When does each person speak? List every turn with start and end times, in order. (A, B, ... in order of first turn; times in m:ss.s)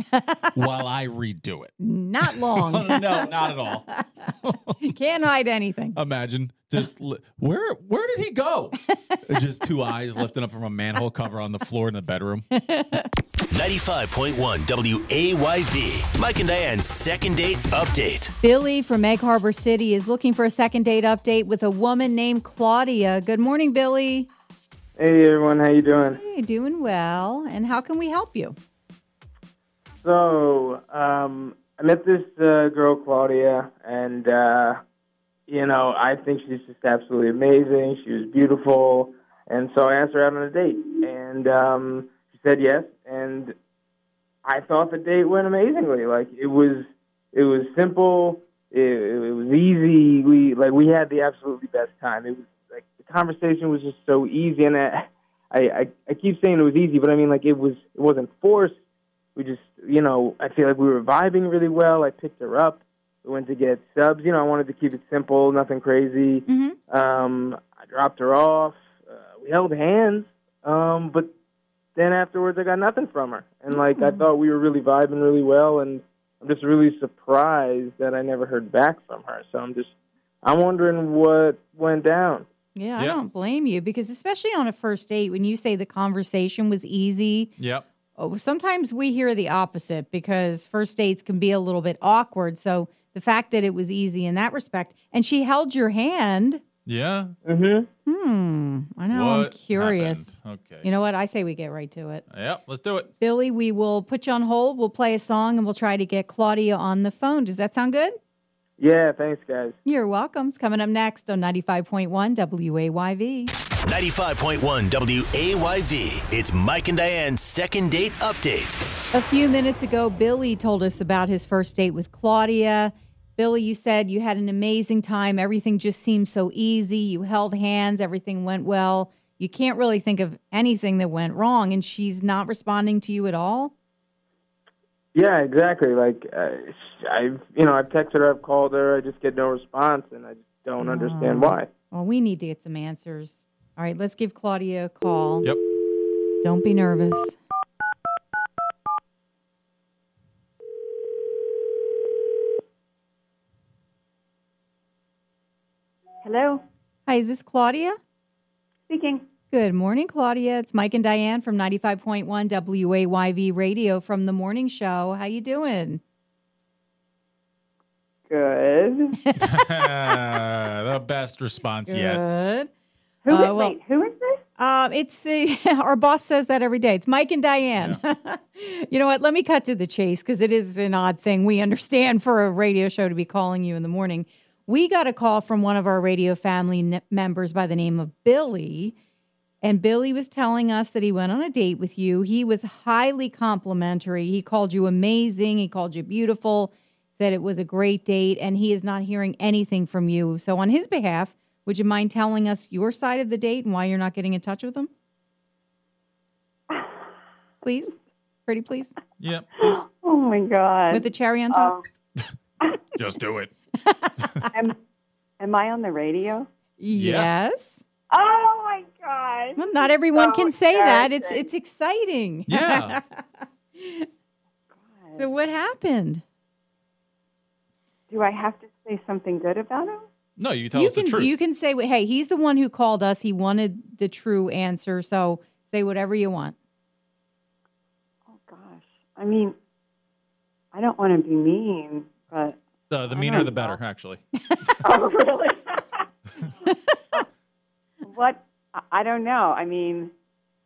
0:00.1-0:00.6 A
0:00.6-0:01.7 B
0:01.8-0:04.1 A
0:02.2-0:04.8 B
0:04.8-0:06.0 A
0:06.0-0:12.4 B
0:12.5-0:13.1 A
0:13.5-0:18.3 C
0:18.4-0:24.3 A
0:25.0-0:26.2 D
0:26.2-0:28.6 A
0:30.0-0:34.8 D
0:35.5-0:43.5 D
0:44.4-0:58.7 D
0:59.4-1:11.3 D
1:06.5-1:06.8 A
1:12.0-1:19.9 D
1:13.7-1:14.2 A
1:20.4-1:22.5 D
1:22.8-1:27.5 A
1:27.6-1:27.9 B
1:28.2-1:36.6 A
1:36.9-1:37.4 B
1:37.5-1:37.9 D
1:38.1-1:42.2 A
1:39.1-1:40.9 B
1:42.3-1:43.1 B
1:43.2-1:48.2 A
1:48.8-1:49.8 D
1:49.8-1:53.5 A
1:53.8-1:58.8 C
1:59.1-2:13.7 A
2:15.2-2:21.7 D
2:20.8-2:25.5 A
2:26.4-2:27.4 A
2:36.2-2:36.6 E
2:37.1-2:38.0 A
2:38.9-2:39.2 E
2:39.5-2:46.0 A
2:48.3-2:49.2 E
2:49.4-2:52.2 B
2:51.9-2:52.7 A
2:53.2-2:54.4 E
2:53.3-2:53.8 A
2:54.6-3:09.0 A
3:09.6-3:24.9 A
3:27.6-3:28.9 A
3:29.2-3:29.8 B
3:29.6-3:31.8 E
3:30.9-3:31.7 A
3:32.9-3:33.5 B
3:33.8-3:34.5 A
3:34.2-3:34.5 B
3:34.5-3:34.8 E
3:35.4-3:36.5 E
3:36.8-3:37.8 A
3:36.9-3:37.3 B
3:38.1-3:41.5 E
3:39.6-3:43.2 A
3:42.5-3:43.0 B
3:43.8-3:44.1 A
3:44.9-3:45.2 E
3:45.2-3:46.2 A
3:48.1-3:50.1 E
3:50.4-3:51.3 B
3:50.7-3:56.6 A
3:58.3-3:59.6 E
4:00.7-4:02.6 E
4:02.9-4:04.7 B
4:03.1-4:03.8 E
4:04.8-4:06.1 E
4:06.7-4:07.2 A
4:08.0-4:10.1 E